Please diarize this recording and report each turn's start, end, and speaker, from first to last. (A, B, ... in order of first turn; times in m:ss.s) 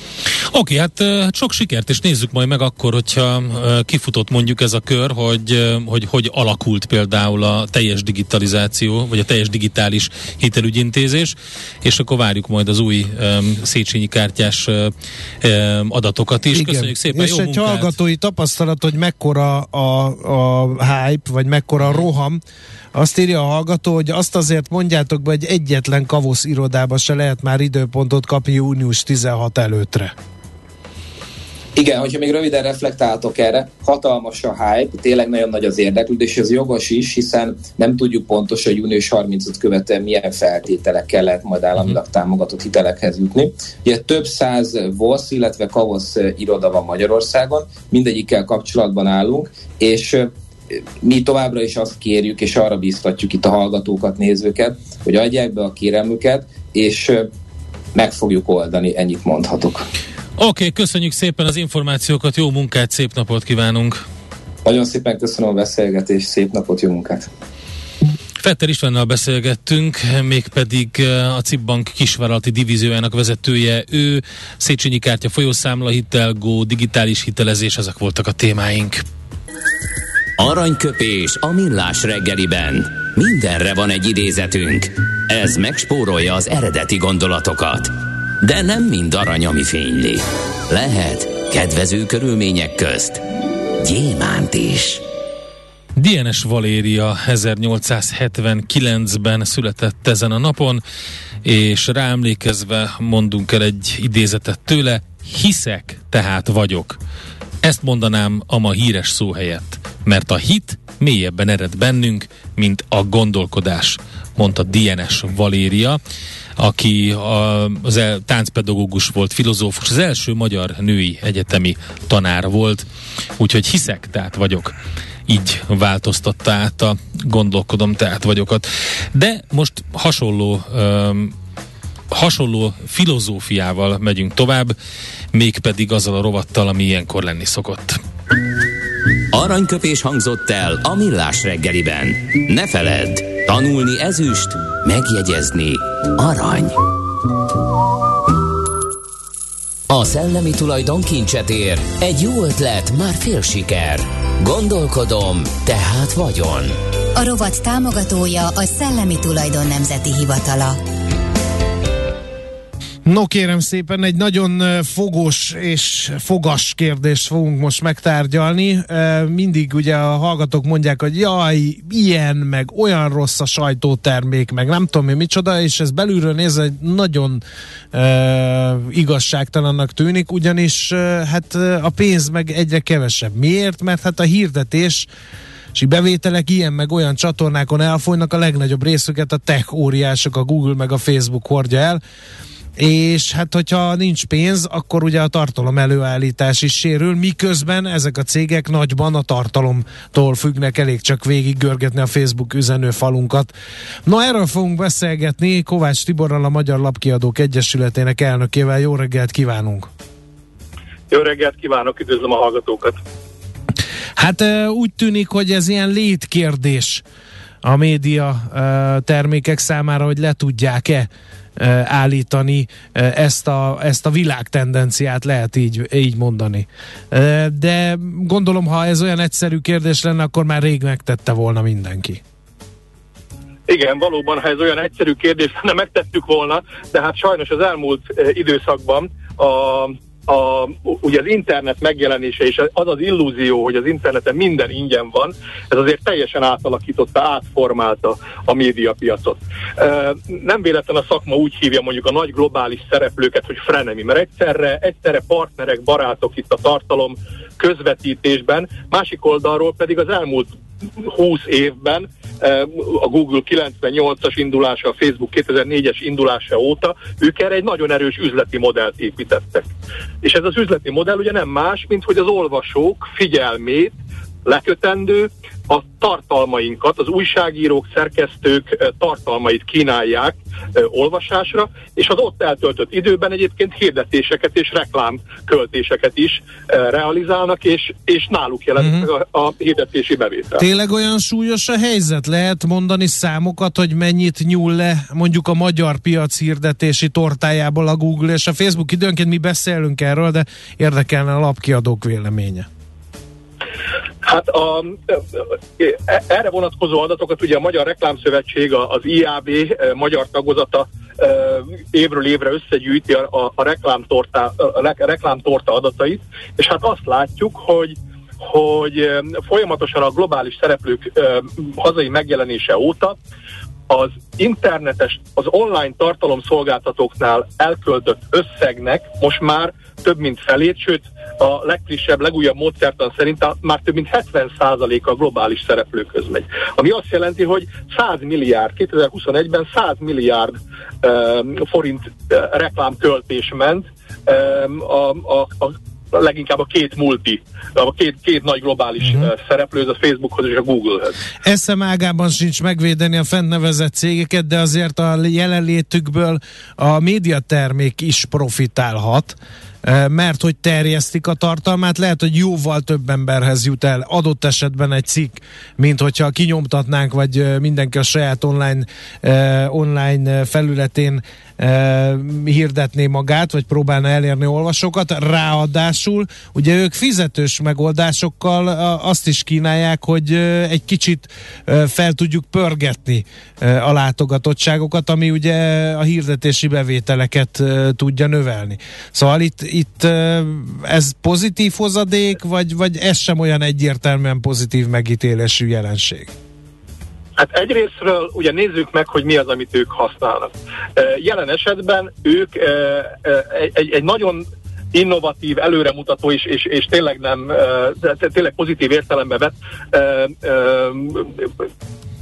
0:00.5-0:17.9 A
0:16.5-0:22.4 B
0:22.9-0:30.1 B
0:31.7-0:50.3 C
0:51.0-0:57.3 C
0:57.9-0:59.8 C
1:00.4-1:04.0 A
1:04.6-1:07.3 C
1:08.4-1:19.0 A
1:20.4-1:33.2 D
1:33.8-1:35.0 D
1:36.0-1:40.8 A
1:41.4-1:47.0 A
1:47.6-1:56.0 A
1:56.6-2:02.8 A
2:03.4-2:04.7 A
2:05.3-2:11.3 A
2:12.1-2:14.7 A
2:15.3-2:18.0 A
2:19.3-2:26.8 D
2:29.9-2:36.8 D
2:37.1-2:40.8 E
2:43.0-2:57.4 B
2:57.9-3:05.1 B
3:05.7-3:12.0 B
3:12.8-3:23.5 B
3:24.0-3:29.9 B
3:31.1-3:33.0 F
3:34.2-3:37.0 B
3:37.6-3:52.2 B
3:53.7-4:29.6 F
4:30.2-4:50.6 F
4:48.8-4:49.1 B
4:50.6-5:02.7 B
5:04.2-5:23.2 F
5:23.9-5:51.2 F
5:49.0-5:49.3 B
5:51.4-6:36.3 B
6:37.4-6:51.4 F